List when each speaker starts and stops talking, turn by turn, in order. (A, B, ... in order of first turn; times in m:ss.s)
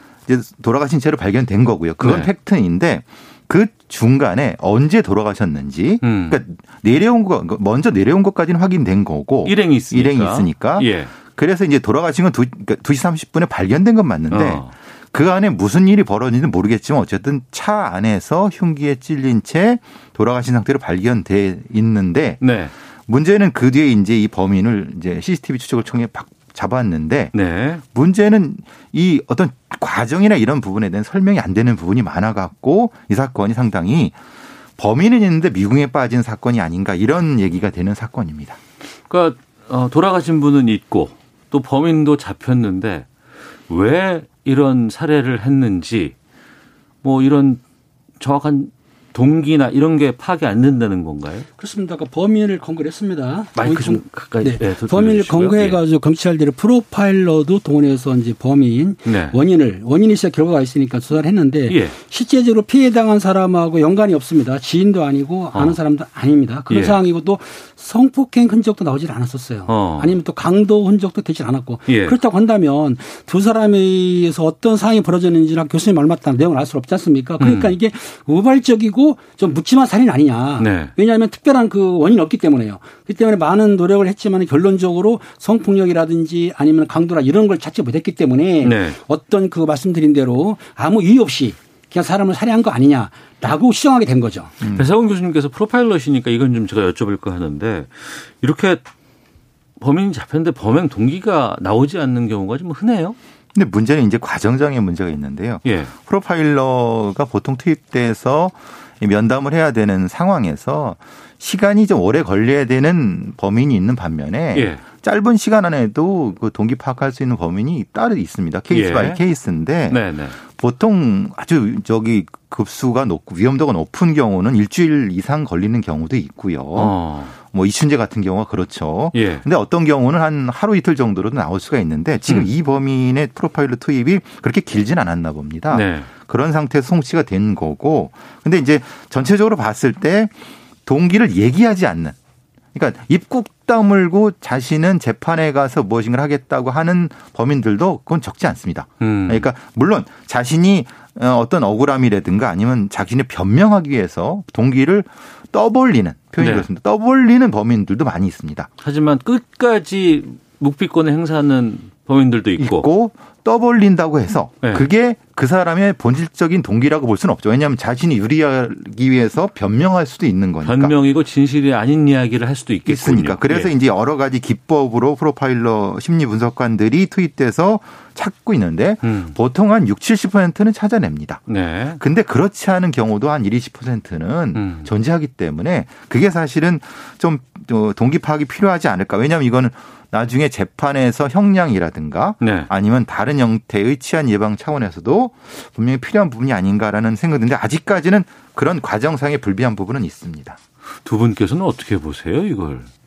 0:00.3-0:22.4 A
0:02.0-0:02.3 B
0:06.0-0:06.4 B
0:09.4-0:11.1 B
0:14.3-0:14.7 B
0:22.4-0:22.7 B
0:23.1-0:27.3 A
0:27.3-0:27.8 B
0:27.9-0:34.2 A
0:34.8-0:38.6 A
0:39.1-0:43.1 B
0:43.7-0:46.2 B
0:47.0-0:47.6 B
0:48.2-0:51.5 B
0:51.6-1:34.5 C
0:53.6-0:55.8 B
0:59.0-0:59.4 B
1:01.7-1:02.0 B
1:06.7-1:07.0 B
1:09.7-1:10.1 B
1:11.9-1:12.2 B
1:17.4-1:17.8 B
1:20.6-1:20.9 B
1:28.6-1:29.0 B
1:34.6-1:34.9 A
1:34.7-1:38.8 B
1:39.8-1:43.2 B
1:43.5-2:20.3 A
1:45.6-1:45.9 B
1:54.5-1:54.8 B
1:58.7-1:59.2 B
1:59.9-2:00.4 B
2:06.8-2:07.4 B
2:09.1-2:09.4 B
2:15.7-2:16.1 B
2:20.8-2:22.2 A
2:22.8-2:38.7 A
2:29.0-2:29.5 B
2:36.4-2:36.7 B
2:38.8-2:42.9 B
2:42.6-2:51.0 A
2:44.6-2:44.9 B
2:50.6-2:53.7 B
2:52.9-3:01.4 A
2:59.0-2:59.3 B
3:01.5-3:02.0 B
3:02.0-3:20.6 A
3:04.6-3:04.9 B
3:12.4-3:12.7 B
3:21.0-3:22.9 B